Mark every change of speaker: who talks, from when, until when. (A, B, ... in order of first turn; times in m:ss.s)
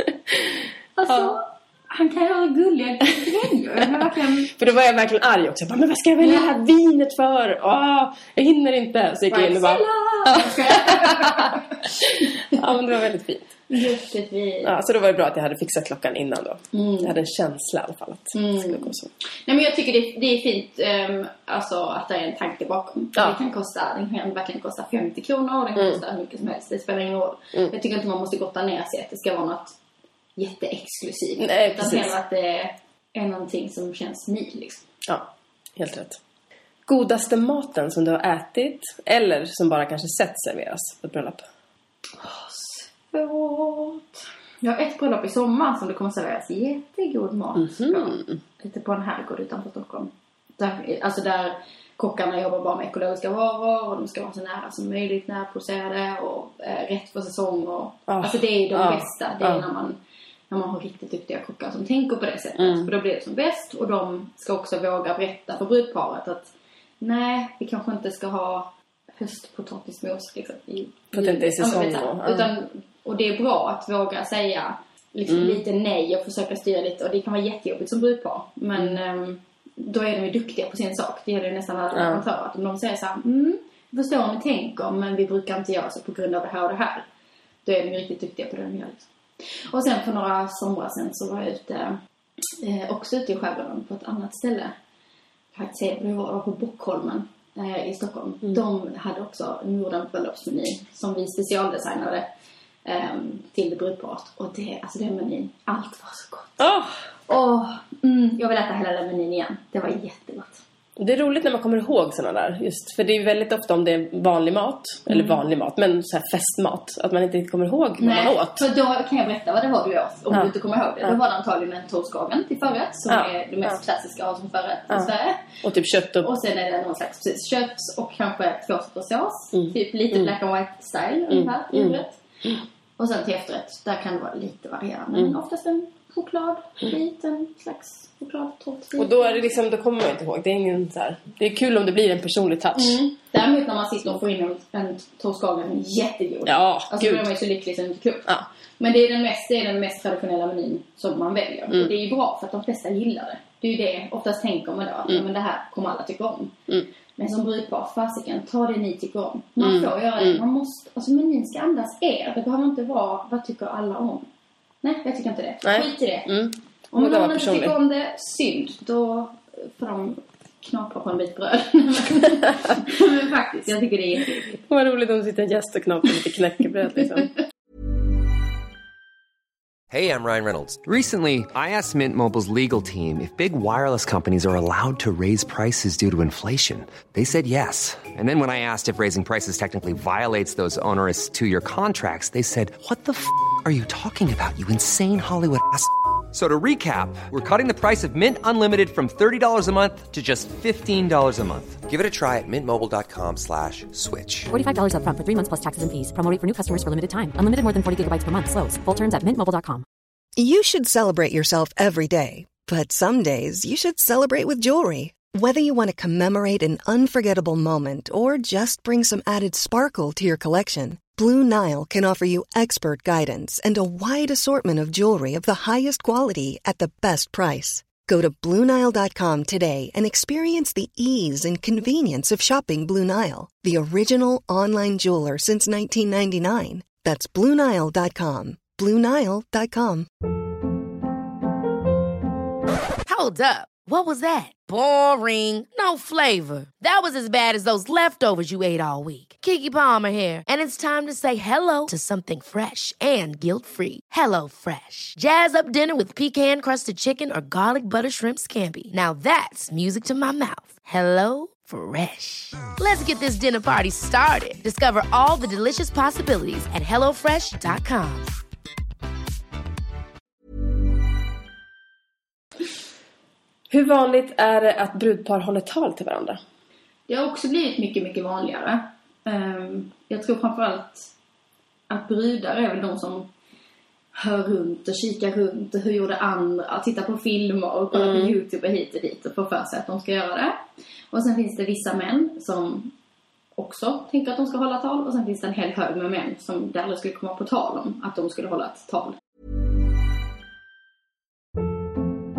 0:00.3-0:01.3 A
0:01.0-0:04.5 B
0:04.5-0:12.0 A
0:06.2-0:06.4 B
0:09.3-0:12.6 B
0:12.5-0:13.6 A
0:13.7-0:14.7 B
0:14.6-0:19.1 A
0:16.7-0:17.1 B
0:18.3-0:18.9 B
0:19.5-0:29.7 B
0:25.8-0:26.0 A
0:30.4-0:34.8 B
0:31.4-0:32.2 A
0:35.1-0:36.2 A
0:36.9-0:41.4 A
0:42.2-1:00.0 B
0:47.6-0:48.4 A
0:58.1-0:59.6 A
1:00.5-1:27.0 B
1:02.6-1:02.9 A
1:11.1-1:12.5 A
1:15.3-1:15.6 A
1:21.9-1:22.2 A
1:27.6-1:29.1 B
1:29.7-1:32.0 B
1:32.6-1:34.7 B
1:35.5-1:42.2 B
1:42.8-1:46.6 B
1:46.6-1:47.0 A
1:47.3-1:50.6 B
1:51.0-1:58.6 A
1:55.1-1:55.4 B
1:58.0-2:05.4 B
2:00.3-2:01.2 A
2:03.1-2:03.8 A
2:05.6-2:06.3 A
2:06.2-2:12.2 B
2:09.5-2:10.3 A
2:11.3-2:12.6 A
2:13.0-2:19.4 B
2:19.0-2:23.0 A
2:22.7-2:36.5 B
2:26.4-2:27.3 A
2:37.2-2:44.3 B
2:39.6-2:40.4 A
2:44.8-2:46.3 B
2:45.6-2:47.8 A
2:46.9-2:54.5 B
2:54.5-2:57.4 A
2:59.9-3:24.5 C
3:24.5-3:29.8 D
3:30.4-4:00.1 E
4:03.0-4:28.3 F
4:33.7-4:36.4 A
4:37.1-4:41.1 B
4:41.9-4:43.3 B
4:44.1-4:50.6 B
4:47.9-4:48.3 A
4:51.1-4:52.9 B
4:53.6-4:59.2 B